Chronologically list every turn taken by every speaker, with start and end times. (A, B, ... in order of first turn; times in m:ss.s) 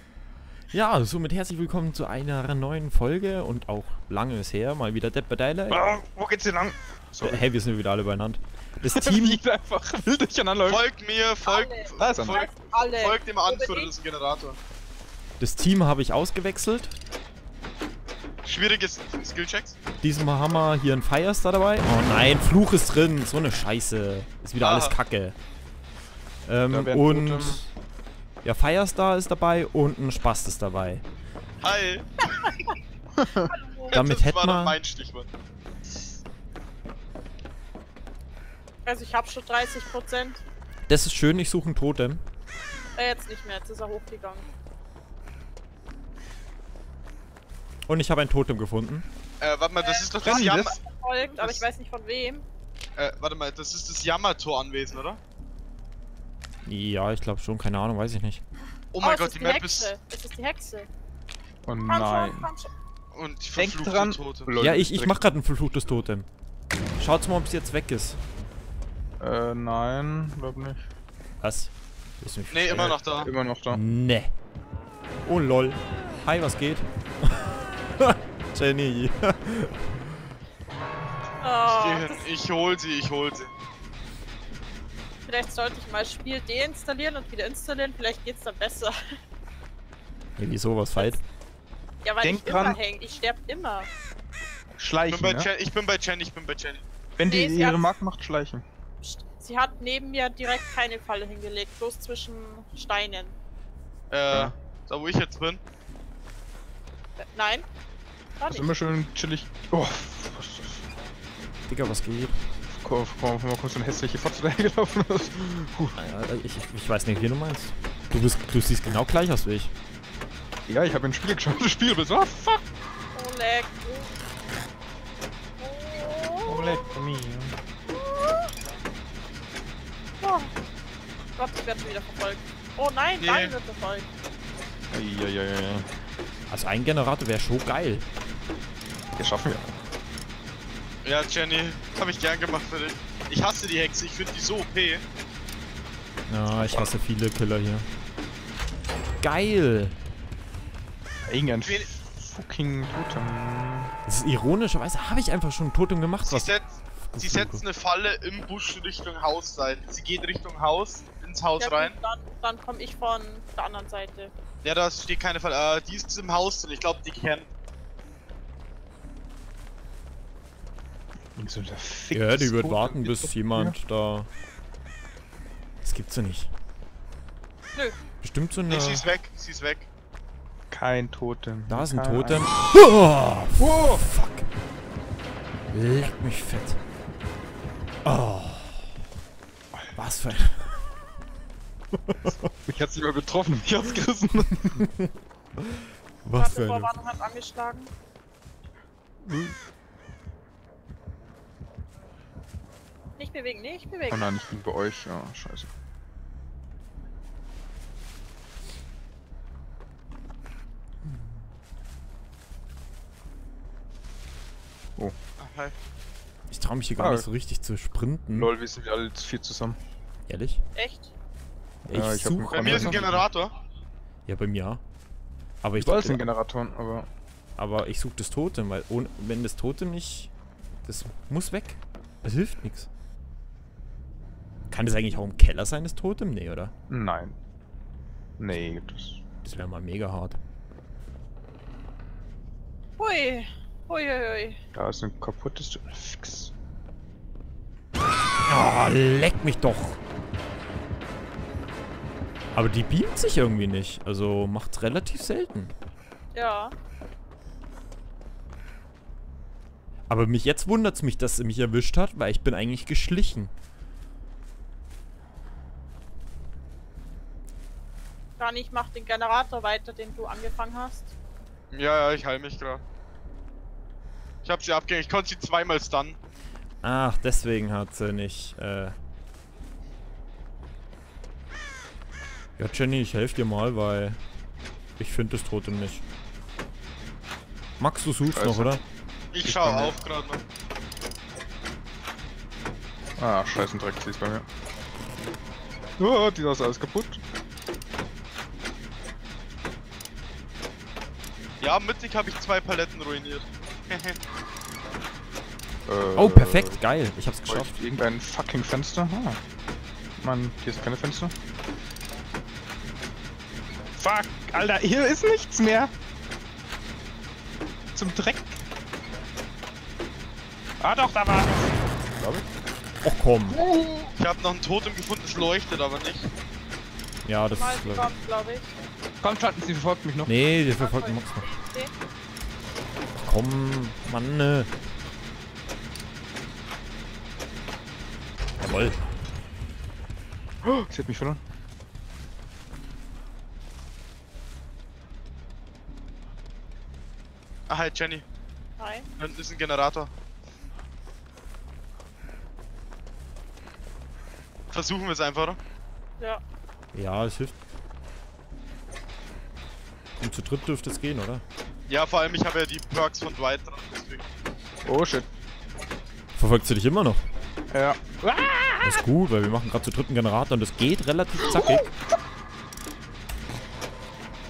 0:00.7-0:05.8 A
0:05.7-0:07.5 B
0:07.2-0:09.4 A
0:08.8-0:10.8 B
0:10.6-0:14.6 C
0:11.4-0:13.9 D
0:12.0-0:12.5 B
0:15.4-0:16.9 A
0:18.4-0:19.8 C
0:20.0-0:25.4 A
0:24.6-0:25.0 C
0:26.4-0:27.7 A
0:26.7-0:27.6 B
0:28.4-0:31.0 A
0:31.6-0:32.6 C
0:33.2-0:33.5 B
0:33.4-0:34.0 D
0:33.9-0:35.3 C
0:33.9-0:34.8 A
0:38.8-0:40.4 D
0:40.9-0:42.2 A
0:43.0-0:44.4 D
0:47.9-0:49.1 A
0:49.4-0:50.8 C
0:49.8-0:50.2 D
0:50.2-0:50.8 B
0:50.8-0:52.4 D
0:51.4-0:51.6 C
0:53.0-0:55.2 C
0:56.6-0:58.4 A
0:58.9-0:59.9 C
0:59.0-1:00.9 D
1:01.6-1:02.5 B
1:01.8-1:02.7 D
1:03.1-1:04.5 C
1:03.6-1:05.2 B
1:04.6-1:06.3 A
1:07.0-1:08.2 A
1:09.2-1:10.9 B
1:11.4-1:13.0 A
1:12.5-1:13.3 C
1:13.2-1:13.8 B
1:13.7-1:14.3 A
1:15.2-1:19.9 A
1:21.4-1:22.2 D
1:21.7-1:23.5 C
1:25.2-1:28.9 D
1:30.4-1:31.2 A
1:32.0-1:33.9 D
1:32.2-1:32.8 B
1:34.8-1:35.5 B
1:35.1-1:36.8 C
1:37.2-1:38.6 B
1:37.2-1:37.9 D
1:39.0-1:43.4 D
1:44.1-1:45.6 C
1:47.2-1:47.6 D
1:48.4-1:48.7 D
1:48.5-1:50.8 B
1:51.7-1:52.4 A
1:52.7-1:56.0 B
1:56.0-1:59.7 A
2:00.7-2:02.6 B
2:03.1-2:04.1 D
2:05.6-2:06.8 D
2:06.4-2:07.6 B
2:08.0-2:08.4 D
2:10.2-2:10.5 D
2:11.4-2:14.1 D
2:13.2-2:13.5 C
2:14.9-2:15.9 B
2:16.5-2:18.0 A
2:19.2-2:19.7 B
2:21.0-2:25.0 C
2:26.3-2:27.9 A
2:26.5-2:26.9 B
2:29.2-2:30.0 A
2:31.3-2:33.9 B
2:34.1-2:36.5 A
2:36.2-2:42.0 C
2:37.0-2:37.6 A
2:41.6-2:44.3 D
2:44.6-2:47.5 C
2:51.4-2:53.8 B
2:52.1-2:54.3 A
2:55.8-2:56.5 A
2:58.2-2:59.1 A
2:58.7-2:59.9 C
3:00.7-3:02.5 B
3:01.7-3:04.5 A
3:03.6-3:04.0 B
3:05.7-3:06.8 A
3:08.0-3:08.9 A
3:10.0-3:10.8 A
3:11.9-3:12.4 A
3:12.6-3:14.8 B
3:14.8-3:15.1 A
3:16.2-3:16.9 A
3:16.4-3:17.9 D
3:19.2-3:19.6 B
3:23.2-3:24.4 D
3:24.1-3:25.7 B
3:35.4-3:35.7 C
3:36.5-3:38.5 A
3:37.0-3:37.3 B
3:38.3-3:39.8 B
3:40.3-3:40.6 A
3:40.8-3:41.1 D
3:41.8-3:43.1 B
3:41.9-3:43.2 A
3:42.5-3:43.5 C
3:44.2-3:44.8 A
3:45.6-3:46.3 A
3:45.8-3:47.1 B
3:47.6-3:50.3 A
3:50.8-3:52.9 A
3:54.7-3:56.7 A
3:56.9-3:57.4 B
3:58.4-3:59.2 B
3:59.4-4:00.4 A
4:03.0-4:04.6 D
4:04.7-4:06.5 B
4:08.4-4:10.0 A
4:12.5-4:15.7 A
4:16.3-4:16.7 D
4:20.1-4:23.5 A
4:28.4-4:31.1 D
4:31.7-4:32.8 C
4:34.4-4:36.2 C
4:36.8-4:38.9 A
4:42.6-4:44.2 A
4:45.0-4:46.0 A
4:47.8-4:48.8 A
4:48.3-4:48.7 B
4:49.3-4:50.4 C
4:49.4-4:49.9 B
4:53.2-4:54.4 B
4:56.0-4:57.2 B
5:01.6-5:04.2 C
5:05.9-5:06.8 B
5:06.2-5:07.7 A
5:07.4-5:09.4 B
5:10.2-5:11.3 B
5:14.0-5:15.9 B
5:17.9-5:18.6 B
5:20.8-5:22.0 B
5:22.2-5:22.4 A
5:23.0-5:23.6 A
5:23.5-5:24.1 B
5:24.2-5:26.3 C
5:27.2-5:28.1 A
5:27.5-5:28.7 D
5:29.2-5:30.3 B
5:30.2-5:31.5 A
5:30.8-5:31.9 D
5:33.2-5:34.7 A
5:38.6-5:39.0 A
5:40.6-5:41.4 B
5:47.7-5:48.2 C
5:48.8-5:49.1 D
5:49.2-5:50.1 C
5:54.7-5:55.6 C
5:56.9-5:57.6 A
6:00.2-6:01.4 A
6:01.9-6:04.3 C
6:04.8-6:05.3 B
6:06.3-6:07.2 A
6:07.7-6:09.0 B
6:08.8-6:11.9 A
6:11.4-6:11.9 B